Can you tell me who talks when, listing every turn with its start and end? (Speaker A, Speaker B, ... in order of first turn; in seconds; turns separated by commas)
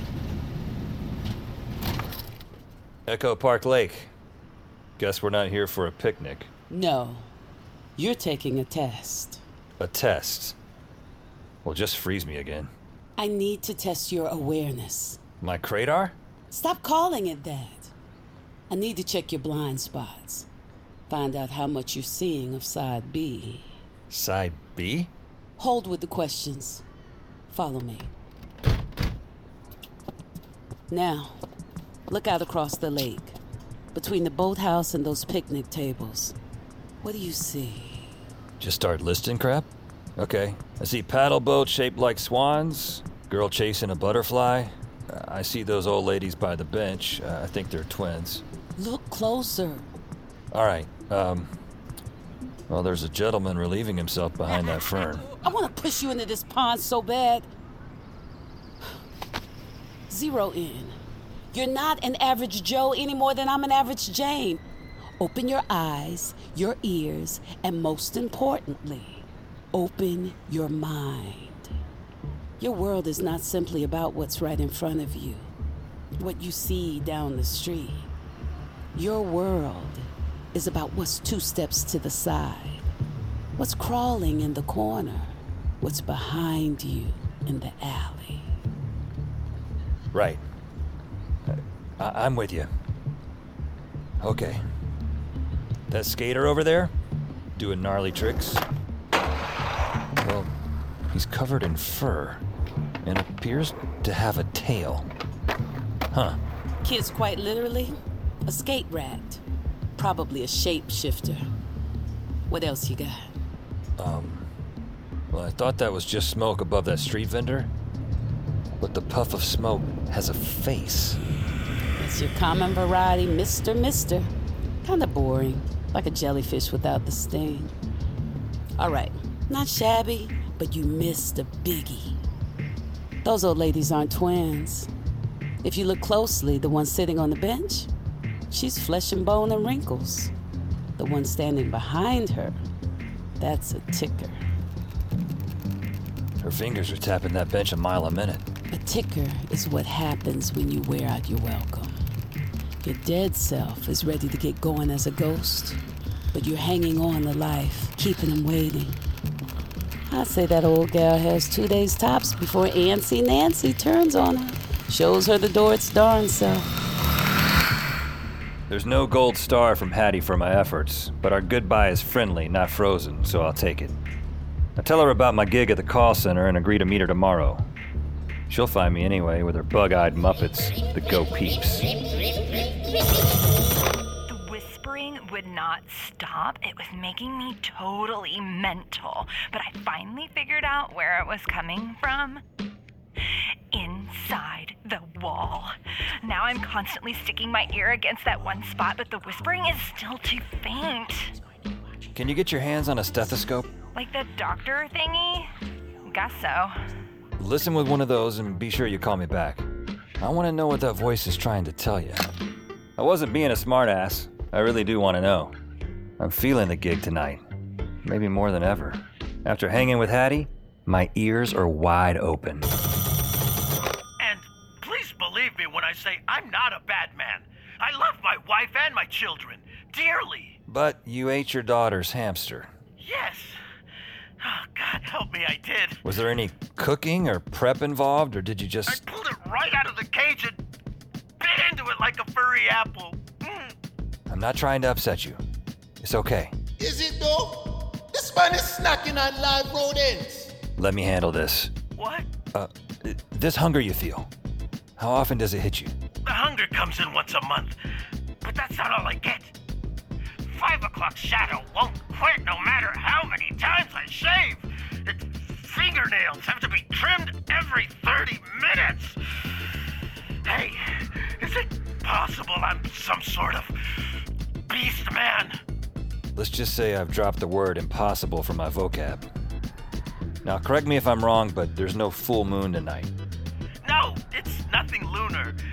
Speaker A: 3.1-4.1, Speaker A: 5.0-6.5, Speaker B: 6.7-7.3, Speaker B: 8.0-9.4, Speaker A: 9.8-10.6, Speaker A: 11.7-12.7, Speaker B: 13.2-15.2, Speaker A: 15.4-16.2, Speaker B: 16.5-17.9, Speaker B: 18.7-20.5, Speaker B: 21.1-23.8, Speaker A: 24.1-25.1, Speaker B: 25.6-26.8, Speaker B: 27.5-28.1, Speaker B: 30.9-31.4, Speaker B: 32.1-33.4, Speaker B: 33.9-36.4, Speaker B: 37.0-38.1, Speaker A: 38.6-48.4, Speaker B: 48.8-49.9, Speaker A: 50.5-51.5, Speaker A: 52.7-55.2, Speaker B: 55.4-57.5, Speaker B: 60.1-61.0, Speaker B: 61.5-64.6, Speaker B: 65.2-71.7, Speaker B: 72.6-75.5, Speaker B: 76.2-78.1, Speaker B: 79.0-82.8, Speaker B: 83.6-88.5, Speaker A: 90.1-90.4, Speaker A: 91.5-92.7, Speaker A: 94.2-94.6, Speaker A: 95.9-96.9, Speaker A: 97.6-98.6, Speaker A: 100.2-100.5, Speaker A: 101.1-102.4, Speaker A: 103.0-105.1, Speaker A: 106.1-106.4, Speaker B: 106.8-109.4, Speaker B: 110.0-111.5, Speaker B: 112.5-113.3, Speaker A: 114.0-114.5, Speaker A: 115.3-117.7, Speaker A: 118.8-121.2, Speaker B: 122.0-124.3, Speaker B: 124.8-127.7, Speaker B: 128.8-132.2, Speaker B: 133.2-134.9, Speaker B: 135.6-137.9, Speaker B: 138.5-140.3, Speaker B: 141.0-142.6, Speaker B: 143.4-144.4, Speaker A: 146.4-148.4, Speaker B: 148.7-152.0, Speaker B: 152.8-155.8, Speaker B: 156.3-159.0, Speaker B: 160.1-166.7, Speaker A: 168.7-174.0, Speaker A: 174.8-177.6, Speaker A: 178.5-181.9, Speaker C: 184.3-192.4, Speaker C: 193.7-201.3, Speaker A: 202.2-203.7, Speaker C: 203.9-205.5, Speaker C: 206.1-206.8, Speaker A: 207.4-209.7, Speaker A: 210.2-212.3, Speaker A: 213.0-215.5, Speaker A: 216.2-217.4, Speaker A: 218.1-222.7, Speaker D: 224.2-230.6, Speaker A: 230.7-232.7, Speaker D: 233.0-233.6, Speaker D: 234.4-236.0, Speaker A: 236.0-239.0, Speaker D: 238.9-240.6, Speaker D: 241.4-243.7, Speaker A: 244.3-245.4, Speaker A: 246.0-246.5, Speaker E: 246.8-250.5, Speaker A: 250.8-251.7, Speaker D: 252.0-252.3, Speaker A: 252.5-254.3, Speaker A: 255.0-255.9, Speaker D: 256.2-257.8, Speaker D: 258.4-259.5, Speaker D: 260.5-269.2, Speaker D: 270.4-274.0, Speaker D: 274.7-275.6, Speaker A: 276.4-279.2, Speaker A: 280.4-283.1, Speaker D: 283.8-285.6